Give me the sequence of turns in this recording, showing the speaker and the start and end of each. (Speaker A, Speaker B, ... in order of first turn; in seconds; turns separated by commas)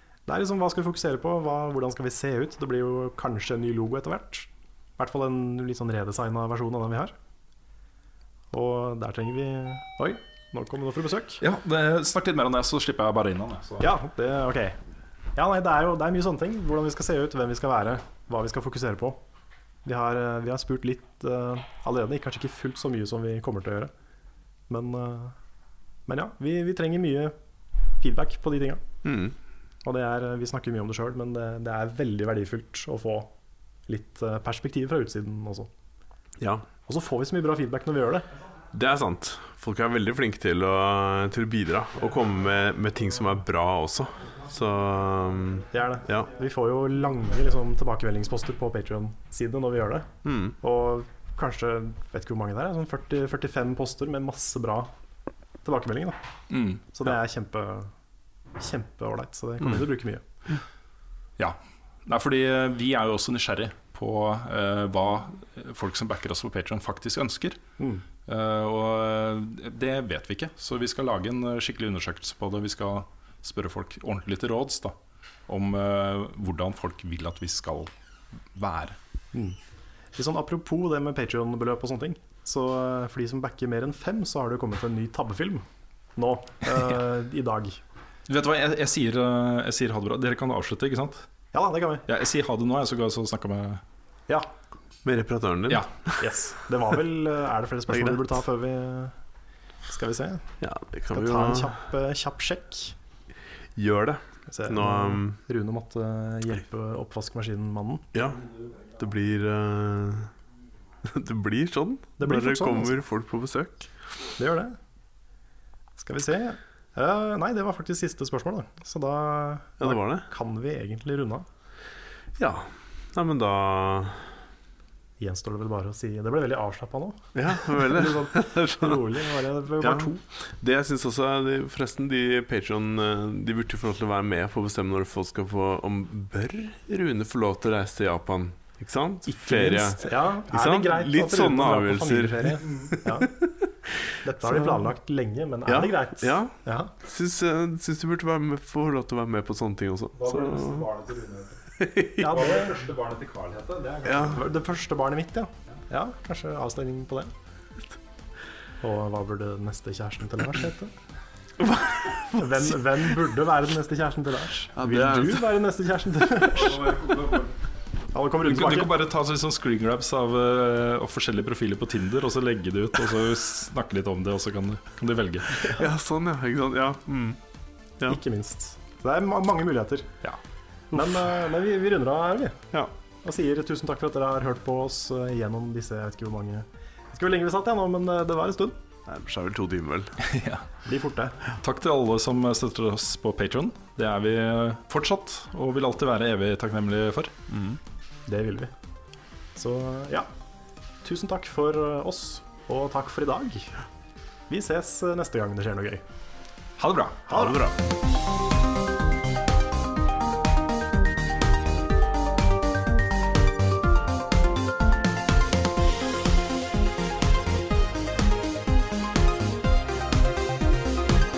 Speaker A: 0.3-7.1, Speaker A: 8.5-11.4, Speaker B: 11.4-13.9, Speaker A: 13.8-14.8, Speaker A: 15.3-19.2, Speaker A: 19.8-23.9, Speaker A: 24.7-25.4, Speaker A: 26.1-27.3, Speaker A: 28.0-28.8, Speaker C: 29.0-29.3, Speaker A: 29.8-33.3, Speaker A: 33.9-35.7, Speaker C: 36.4-36.7, Speaker A: 36.9-38.3, Speaker C: 38.7-46.3, Speaker A: 45.7-54.9, Speaker C: 50.2-50.5, Speaker A: 55.6-56.2, Speaker B: 56.5-56.8, Speaker A: 56.9-57.9, Speaker A: 58.6-60.2, Speaker C: 59.6-59.9, Speaker B: 61.4-67.6, Speaker A: 67.8-68.0, Speaker B: 68.2-75.0, Speaker B: 75.5-77.9, Speaker B: 78.5-79.0, Speaker A: 80.1-87.8, Speaker B: 88.3-91.3, Speaker A: 91.5-92.0, Speaker B: 92.0-93.8, Speaker C: 95.0-96.2, Speaker A: 96.2-99.2, Speaker C: 97.9-98.3, Speaker A: 99.9-100.5, Speaker C: 100.6-101.7, Speaker A: 101.1-102.9, Speaker C: 103.8-105.4, Speaker A: 104.5-108.1, Speaker C: 108.1-110.3, Speaker C: 111.0-113.9, Speaker A: 112.2-112.9, Speaker A: 114.4-114.8, Speaker A: 116.0-121.5, Speaker C: 119.8-120.2, Speaker C: 122.4-124.4, Speaker A: 125.2-130.2, Speaker C: 127.3-129.2, Speaker C: 129.8-144.8, Speaker A: 139.4-143.3, Speaker A: 144.2-146.9, Speaker C: 145.7-150.9, Speaker B: 150.2-151.6, Speaker C: 151.8-152.7, Speaker A: 152.2-152.8, Speaker B: 152.2-154.3, Speaker C: 154.0-154.4, Speaker A: 154.2-157.3, Speaker A: 158.8-160.9, Speaker C: 161.6-163.3, Speaker A: 162.3-166.9, Speaker C: 164.8-165.5, Speaker B: 166.5-167.5, Speaker A: 168.1-168.9, Speaker B: 168.4-175.7, Speaker C: 175.6-177.4, Speaker A: 178.1-180.2, Speaker A: 180.9-182.6, Speaker C: 180.9-181.3, Speaker A: 183.2-188.8, Speaker C: 189.1-190.2, Speaker B: 190.2-190.8, Speaker A: 190.8-191.4, Speaker B: 191.6-197.3, Speaker C: 197.5-197.8, Speaker A: 198.3-198.7, Speaker A: 199.6-200.3, Speaker A: 201.0-203.8, Speaker A: 204.5-206.0, Speaker B: 206.8-207.3, Speaker A: 207.3-207.7, Speaker C: 207.3-207.7